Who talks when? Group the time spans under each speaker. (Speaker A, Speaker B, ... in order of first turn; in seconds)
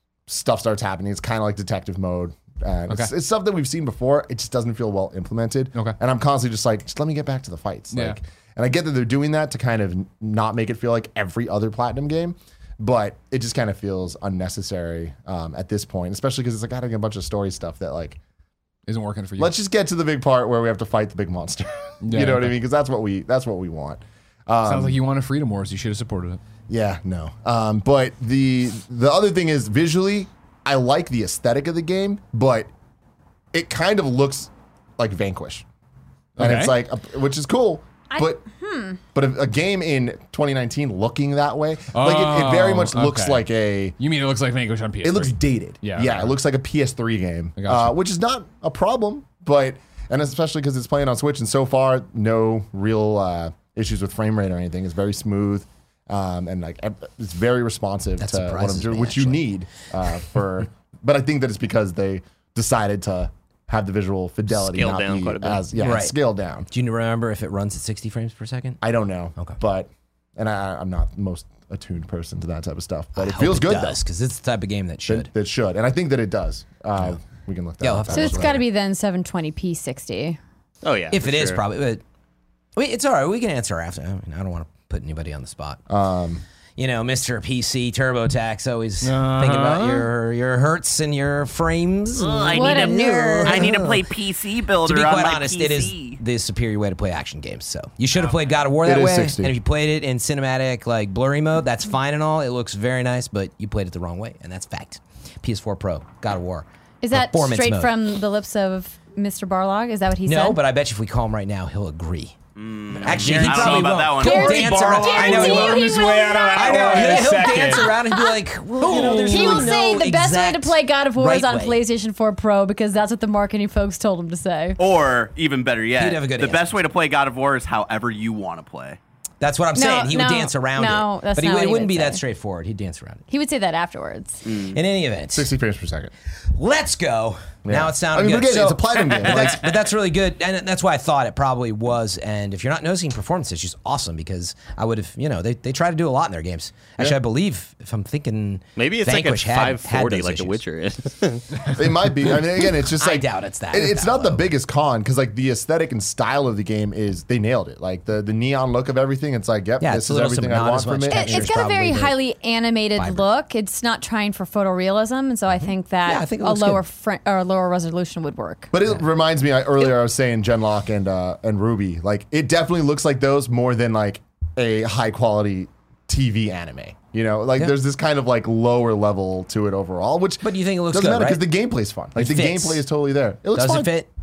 Speaker A: 0.3-18.2, 19.4-25.0, 26.7-32.7, 33.5-35.6, 36.4-38.4, 39.1-44.0, 45.0-66.7, 68.8-74.0, 75.1-78.6, 85.9-86.4, 98.8-99.5, 135.3-136.1, 137.7-139.7, 151.7-161.6, 168.7-183.9
Speaker B: 18.9-19.5, 22.0-22.5, 24.6-26.4, 36.4-36.7, 41.9-43.5, 44.0-46.3, 47.6-48.0, 89.0-90.1, 113.0-118.0, 118.8-119.7
Speaker C: 38.1-39.0, 78.1-80.4, 92.5-93.9, 107.0-110.6, 114.2-118.4, 119.2-124.8, 129.8-132.2, 133.3-134.4, 161.1-168.7
Speaker D: 58.2-59.4, 65.8-66.2, 66.7-68.8, 73.2-75.3, 77.8-78.6, 81.1-82.0, 82.8-85.8, 86.8-94.0, 94.8-108.0, 110.3-112.4, 113.0-121.8, 125.9-126.7, 129.4-133.2, 134.7-135.5, 136.5-150.6, 152.6-154.5, 159.8-162.2, 163.0-163.2, 165.6-166.8, 180.4-181.4, 182.2-182.8, 183.6-184.1
Speaker E: 64.6-65.7, 80.8-81.6, 148.8-151.7
Speaker F: 92.2-96.2, 112.6-115.7, 118.9-119.4, 124.8-129.0, 134.4-134.8